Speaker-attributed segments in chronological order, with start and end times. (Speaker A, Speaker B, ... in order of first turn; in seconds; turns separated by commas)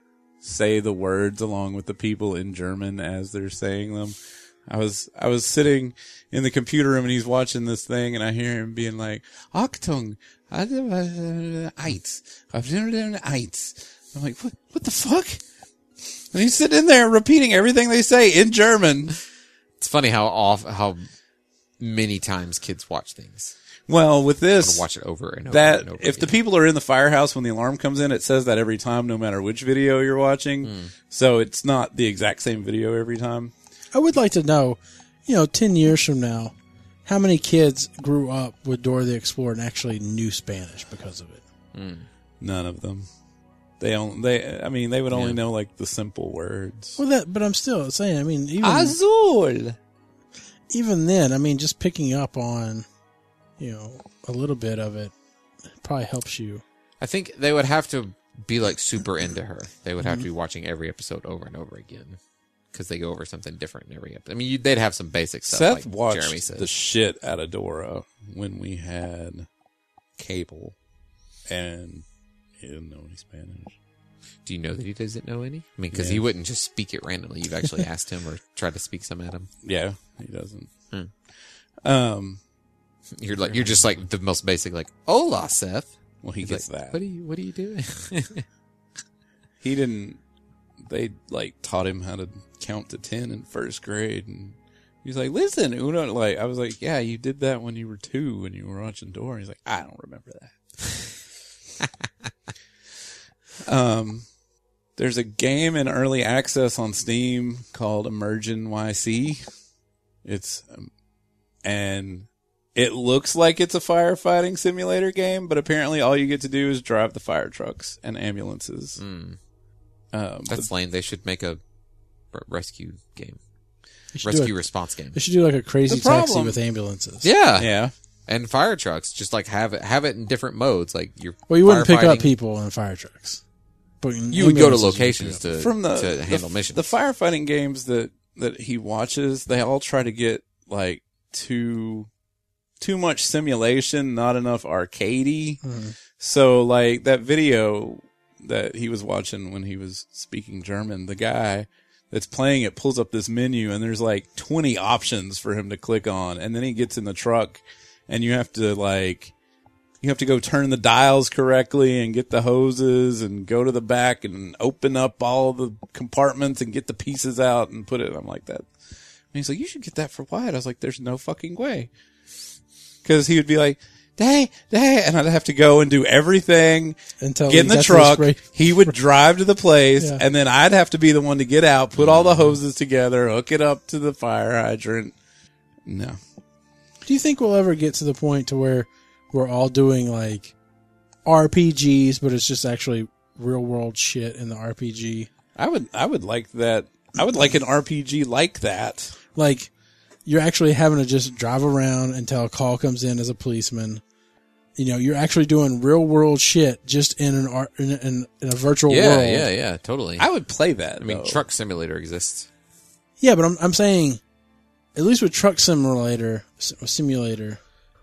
Speaker A: 0.4-4.2, Speaker A: 4.7-15.4, Speaker A: 16.3-19.2, Speaker B: 19.8-21.0, Speaker B: 21.8-23.5, Speaker A: 23.9-24.8, Speaker B: 24.6-26.3, Speaker A: 25.5-33.5, Speaker B: 30.6-30.9, Speaker C: 33.9-36.5, Speaker C: 37.0-41.4, Speaker B: 41.7-42.1, Speaker A: 42.4-43.1, Speaker A: 43.8-47.0, Speaker B: 45.1-45.4, Speaker C: 47.0-49.0, Speaker A: 48.6-49.8, Speaker C: 50.7-52.9, Speaker C: 53.6-55.1, Speaker C: 55.7-56.6, Speaker B: 57.0-62.2, Speaker C: 60.0-60.3, Speaker B: 62.7-66.7, Speaker A: 65.5-69.5, Speaker A: 70.2-70.8, Speaker A: 71.5-72.0, Speaker A: 72.6-73.8, Speaker B: 74.5-79.5, Speaker A: 75.9-76.2, Speaker A: 79.6-80.7, Speaker A: 81.8-82.4, Speaker B: 83.2-88.4, Speaker A: 83.4-83.9, Speaker A: 86.2-87.0, Speaker A: 89.6-90.2, Speaker A: 90.8-100.6, Speaker A: 103.7-104.2, Speaker A: 105.0-109.4, Speaker A: 110.2-110.9, Speaker A: 111.6-119.0, Speaker B: 119.0-119.4, Speaker A: 120.1-120.7, Speaker B: 120.5-121.6, Speaker B: 122.3-123.4, Speaker C: 124.1-124.5, Speaker B: 124.2-125.2, Speaker C: 125.1-127.3, Speaker A: 125.9-126.6, Speaker B: 127.2-127.7, Speaker A: 127.5-127.9, Speaker B: 128.3-132.3, Speaker C: 131.5-133.4, Speaker C: 134.0-135.4, Speaker B: 134.3-136.8, Speaker A: 135.6-142.1, Speaker A: 142.8-145.6, Speaker C: 145.6-145.9, Speaker A: 146.2-159.3, Speaker A: 160.0-168.7, Speaker A: 169.3-171.9, Speaker A: 173.0-185.1, Speaker C: 177.2-178.9, Speaker B: 182.0-182.6, Speaker A: 185.8-186.2, Speaker C: 187.1-190.5, Speaker C: 191.2-195.3, Speaker A: 195.6-199.1, Speaker C: 199.3-199.7, Speaker C: 200.2-204.0, Speaker C: 204.8-209.5, Speaker B: 208.9-210.3, Speaker A: 210.2-211.4, Speaker B: 211.0-212.5, Speaker C: 213.2-214.2, Speaker C: 214.9-217.6